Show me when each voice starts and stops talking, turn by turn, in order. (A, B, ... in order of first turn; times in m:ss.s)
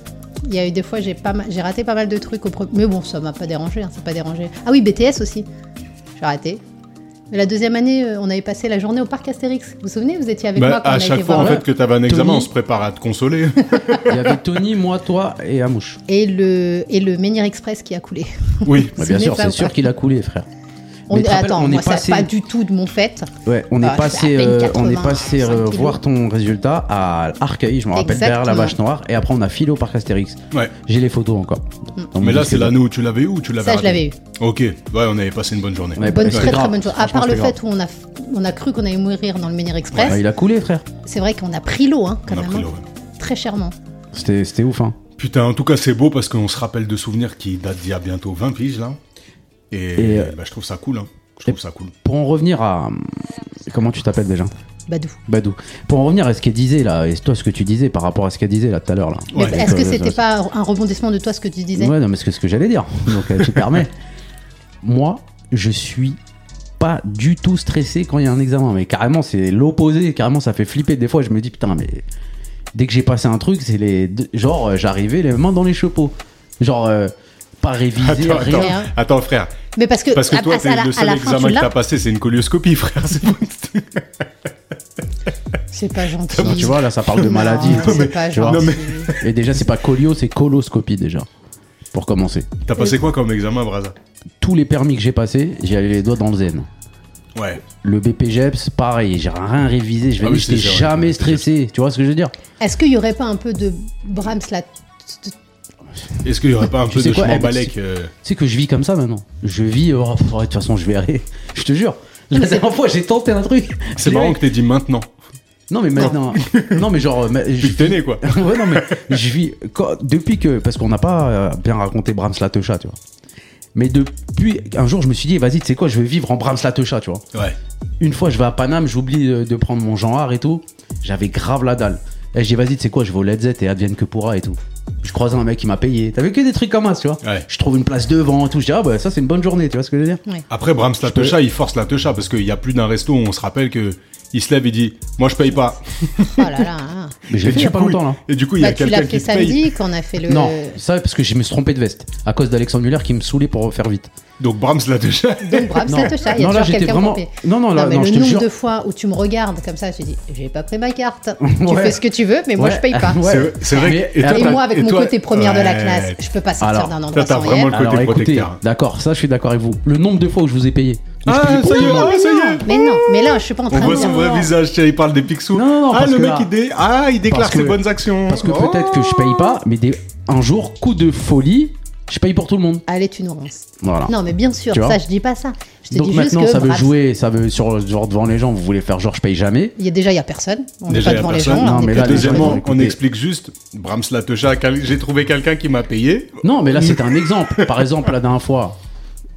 0:00.4-0:05.5 A
0:06.2-0:06.6 A
0:07.3-0:11.6 A
0:10.6-0:14.2 B
0:11.3-0:12.4 C
0:14.1-0:16.0 C
0:16.1-0:19.8 A
0:18.6-0:18.9 B
0:19.0-0:20.4 C
0:21.1-0:23.3 A
0:21.1-0:22.3 C
0:23.4-0:32.8 C
0:23.8-0:26.0 A
0:27.9-0:28.8 A
0:32.2-0:36.6 B
0:33.6-0:34.2 A
0:36.0-0:37.5 C
0:36.0-0:40.2 A
0:39.9-0:40.2 B
0:40.0-0:40.8 C
0:41.0-0:42.7 A
0:42.3-0:42.8 B
0:43.2-0:43.7 A
0:44.1-0:45.0 C
0:45.2-0:49.0 B
0:49.7-0:51.9 B
0:50.0-0:50.3 C
0:52.0-0:54.5 C
0:54.9-0:55.2 A
0:55.3-1:00.2 C
0:59.3-0:59.6 B
0:59.3-1:01.9 A
1:01.8-1:03.9 C
1:04.8-1:06.2 C
1:06.8-1:12.0 C
1:12.7-1:18.7 C
1:18.0-1:19.5 B
1:18.4-1:18.9 A
1:19.8-1:21.7 A
1:20.1-1:24.2 B
1:25.7-1:29.1 A
1:26.3-1:29.2 B
1:26.4-1:28.6 C
1:29.2-1:31.3 C
1:31.9-1:32.5 C
1:32.6-1:34.0 B
1:34.4-1:36.7 C
1:37.3-1:37.6 B
1:37.8-1:42.3 C
1:40.2-1:41.5 B
1:42.6-1:45.3 A
1:46.2-1:48.1 B
1:46.9-1:54.4 C
1:52.4-1:52.6 A
1:53.9-1:55.1 B
1:55.7-2:03.0 C
1:56.3-1:56.8 B
1:57.6-1:59.1 B
2:03.7-2:07.2 C
2:08.0-2:20.2 C
2:20.5-2:26.7 B
2:21.0-2:21.4 C
2:26.4-2:27.2 A
2:27.3-2:28.2 C
2:27.4-2:29.7 B
2:28.6-2:30.8 A
2:30.3-2:34.1 C
2:34.4-2:36.0 B
2:35.5-2:47.8 A
2:35.9-2:38.5 C
2:41.4-2:42.0 C
2:42.6-2:44.6 C
2:43.2-2:46.2 B
2:46.6-2:46.9 C
2:47.1-2:48.6 B
2:47.7-2:52.2 C
2:51.2-2:59.5 B
2:51.7-2:54.5 A
2:53.8-2:54.1 C
2:55.5-2:56.5 C
2:57.3-3:02.8 C
3:02.9-3:06.9 A
3:03.8-3:04.1 C
3:04.7-3:05.0 C
3:05.9-3:09.8 C
3:09.8-3:12.6 A
3:10.9-3:17.9 B
3:11.0-3:13.0 C
3:16.4-3:18.8 C